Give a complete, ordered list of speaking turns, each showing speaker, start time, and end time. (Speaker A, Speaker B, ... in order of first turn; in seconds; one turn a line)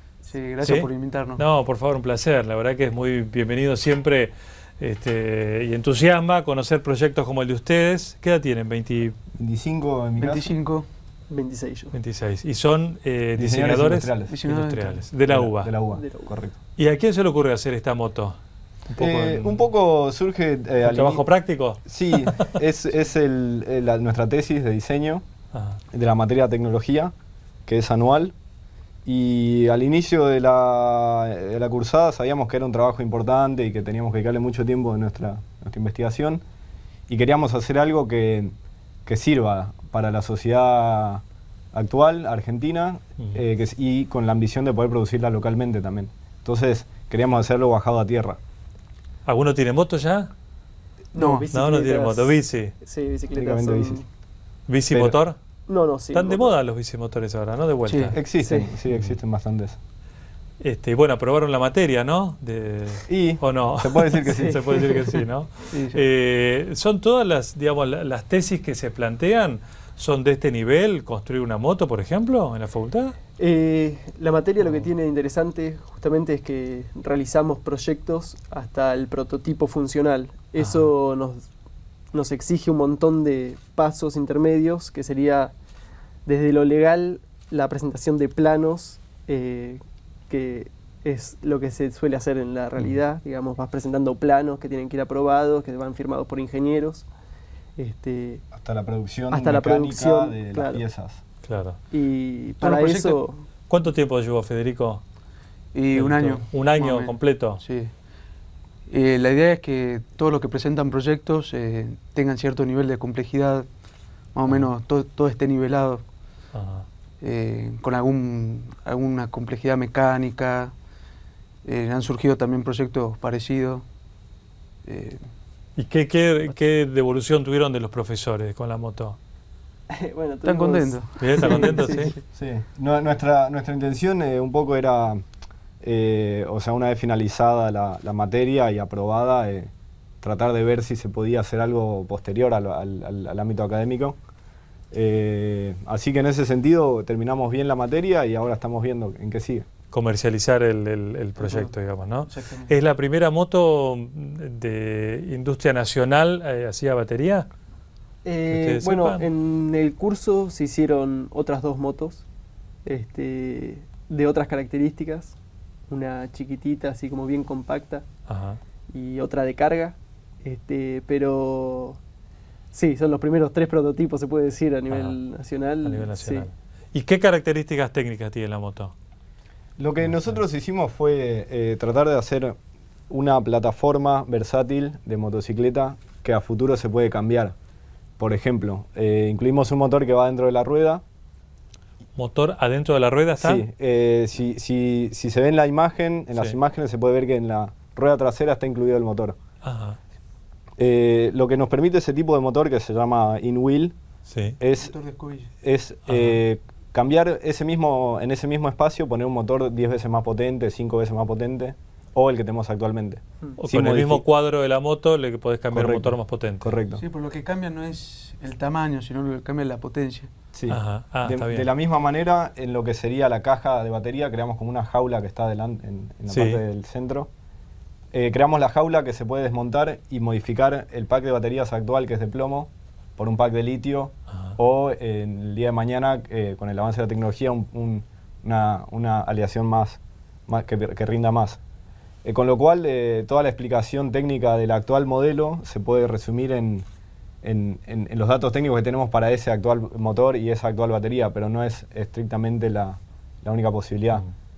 Speaker A: 0.3-1.4
Speaker B: 0.6-9.2
Speaker C: 9.4-10.5
Speaker A: 10.2-10.9
Speaker D: 11.3-11.9
Speaker B: 11.9-15.7
Speaker C: 13.4-14.3
Speaker A: 14.3-15.0
Speaker C: 15.3-16.5
Speaker D: 15.9-16.3
Speaker B: 16.8-18.4
Speaker B: 18.9-19.6
Speaker C: 19.0-21.2
Speaker B: 20.8-22.5
Speaker C: 21.8-25.2
Speaker B: 25.5-25.8
Speaker C: 25.9-27.1
Speaker C: 27.6-28.3
Speaker C: 29.0-36.4
Speaker C: 37.1-38.5
Speaker C: 39.0-48.4
Speaker B: 49.2-50.3
Speaker D: 51.1-54.0
Speaker A: 51.1-51.5
Speaker B: 51.5-52.7
Speaker C: 53.3-54.0
Speaker B: 54.7-55.4
Speaker C: 54.9-55.2
Speaker D: 55.7-56.6
Speaker B: 56.1-58.2
Speaker A: 57.9-58.2
Speaker C: 58.1-59.8
Speaker D: 58.4-58.7
Speaker B: 60.6-73.2
Speaker C: 63.1-64.8
Speaker A: 65.7-66.0
Speaker D: 73.4-81.4
Speaker B: 80.6-80.9
Speaker D: 82.1-85.5
Speaker D: 86.2-97.1
Speaker D: 97.8-98.4
Speaker C: 98.5-101.2
Speaker D: 99.3-100.8
Speaker B: 101.4-101.8
Speaker D: 101.9-103.4
Speaker A: 102.6-103.2
Speaker B: 103.7-105.0
Speaker A: 105.7-107.9
Speaker B: 105.9-107.6
Speaker A: 108.9-113.7
Speaker A: 114.3-116.0
Speaker B: 116.5-116.9
Speaker A: 117.2-120.7
Speaker A: 121.6-123.8
Speaker A: 124.8-125.2
Speaker B: 125.8-129.2
Speaker D: 129.9-132.1
Speaker A: 130.4-132.0
Speaker B: 131.2-132.1
Speaker C: 132.3-135.2
Speaker C: 135.8-139.7
Speaker C: 140.2-144.2
Speaker C: 144.9-149.7
Speaker B: 149.9-157.5
Speaker A: 151.4-151.7
Speaker A: 152.3-152.7
Speaker D: 158.2-162.2
Speaker B: 158.5-159.2
Speaker D: 162.8-165.3
Speaker D: 165.9-168.1
Speaker B: 168.3-168.6
Speaker D: 168.9-172.0
Speaker D: 172.7-176.5
Speaker B: 174.9-175.2
Speaker B: 175.8-178.9
Speaker C: 179.8-182.6
Speaker B: 180.0-180.4
Speaker C: 183.1-187.5
Speaker C: 188.2-191.0
Speaker B: 192.2-193.6
Speaker C: 193.4-199.3
Speaker B: 199.6-200.0
Speaker C: 200.8-204.0
Speaker B: 204.3-204.6
Speaker C: 204.6-204.9
Speaker A: 204.8-205.5
Speaker C: 205.6-214.2
Speaker B: 206.1-206.4
Speaker B: 213.6-216.7
Speaker C: 215.7-217.0
Speaker A: 217.0-220.3
Speaker C: 220.5-227.3
Speaker B: 220.7-221.7
Speaker B: 226.3-226.6
Speaker C: 228.1-241.6
Speaker C: 242.2-246.8
Speaker C: 247.4-254.2